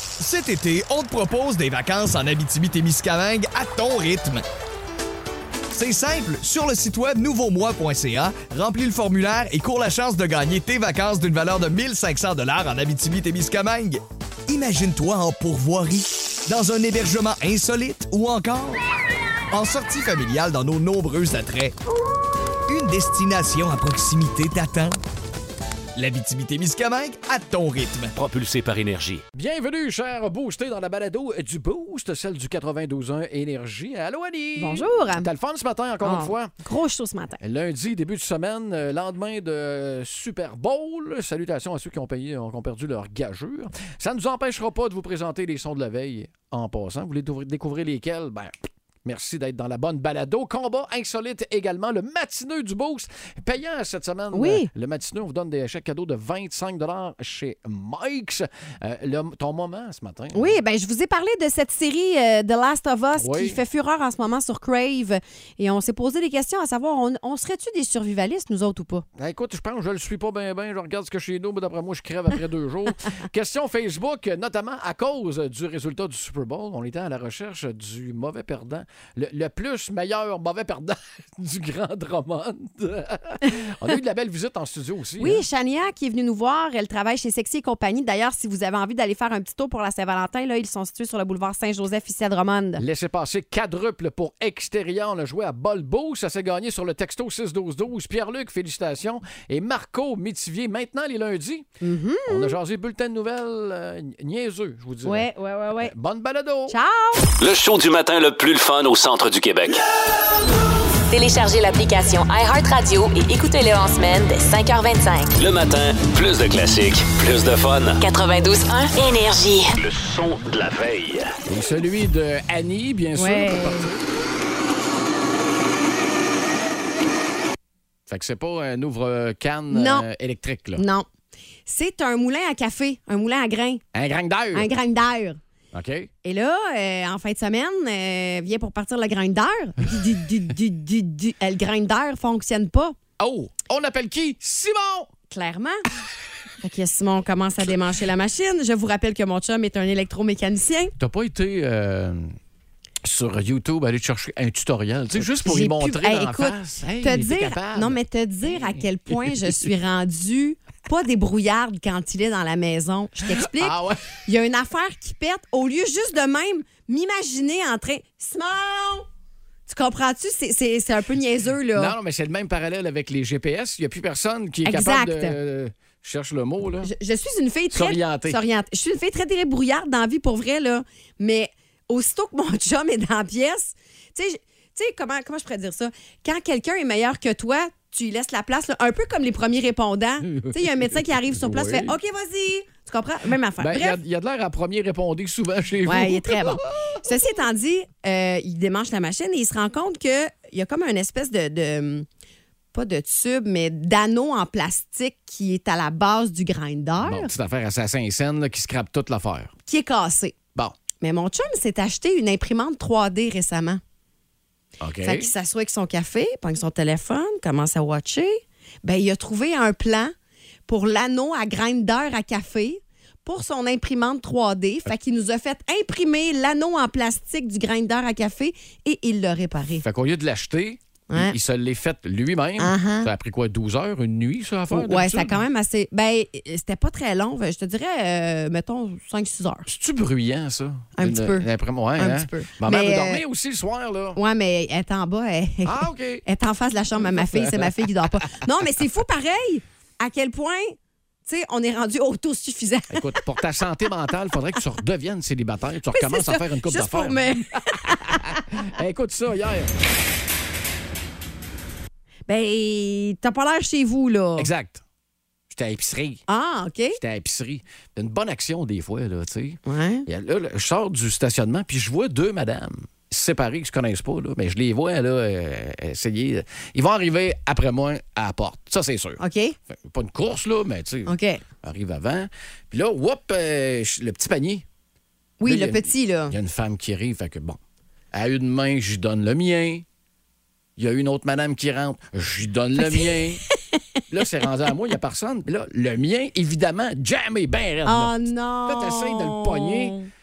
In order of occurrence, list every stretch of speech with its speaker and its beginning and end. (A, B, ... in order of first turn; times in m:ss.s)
0:00.2-0:04.4 A
0:05.7-0:18.8 A
0:19.5-0:21.8 A
0:22.7-0:25.0 A
0:26.0-0:28.1 A
0:28.2-0:29.2 B
0:29.3-0:36.5 C
0:34.6-0:35.3 D
0:36.0-0:37.4 D
0:37.4-0:48.5 C
0:49.0-1:00.6 C
0:54.3-0:54.7 D
1:00.3-1:09.0 D
1:03.2-1:03.6 C
1:09.2-1:25.4 C
1:25.2-1:32.8 D
1:32.8-1:41.7 C
1:41.8-1:42.6 D
1:42.3-1:46.8 C
1:45.0-1:45.9 D
1:46.7-1:47.3 D
1:47.4-1:49.8 B
1:51.1-1:55.3 E
1:55.4-1:58.0 B
1:58.0-1:59.7 E
1:59.8-2:01.3 B
2:01.5-2:04.2 C
2:03.2-2:03.9 D
2:08.1-2:10.8 C
2:09.7-2:10.0 D
2:10.8-2:11.1 D
2:11.7-2:13.8 D
2:13.9-2:14.7 C
2:14.5-2:15.4 D
2:15.7-2:16.1 C
2:16.2-2:23.0 D
2:23.2-2:25.1 C
2:25.3-2:25.8 D
2:26.6-2:30.9 D
2:31.0-2:32.4 C
2:33.0-2:38.8 C
2:35.2-2:43.8 D
2:43.3-2:44.0 C
2:44.3-2:49.1 D
2:49.7-2:51.9 D
2:51.8-2:56.9 C
2:54.6-2:55.4 D
2:56.8-3:14.0 D
2:57.7-2:58.4 C
3:10.3-3:12.0 C
3:13.6-3:17.0 C
3:15.9-3:22.1 D
3:22.7-3:27.3 D
3:27.0-3:29.5 C
3:29.7-3:30.4 D
3:31.0-3:33.8 D
3:34.8-3:35.3 C
3:35.0-3:40.1 D
3:40.7-3:49.8 D
3:49.8-3:55.4 C
3:51.1-3:51.4 D
3:52.6-3:53.1 D
3:54.7-3:59.7 D
3:59.7-4:04.2 C
4:01.0-4:03.2 D
4:04.2-4:10.8 D
4:05.6-4:06.2 C
4:07.0-4:07.9 C
4:11.3-4:13.2 D
4:12.9-4:19.7 C
4:15.9-4:18.4 D
4:22.3-4:24.5 D
4:24.4-4:24.8 C
4:25.5-4:26.2 C
4:26.3-4:27.0 D
4:27.0-4:44.6 C
4:29.7-4:30.1 D
4:39.2-4:39.6 D
4:41.1-4:41.4 D
4:45.4-4:46.3 D
4:45.4-4:47.6 C
4:48.1-4:49.8 C
4:50.8-4:53.4 C
4:52.8-4:53.2 D
4:54.1-4:58.2 C
4:57.9-5:00.1 D
4:58.7-5:00.0 C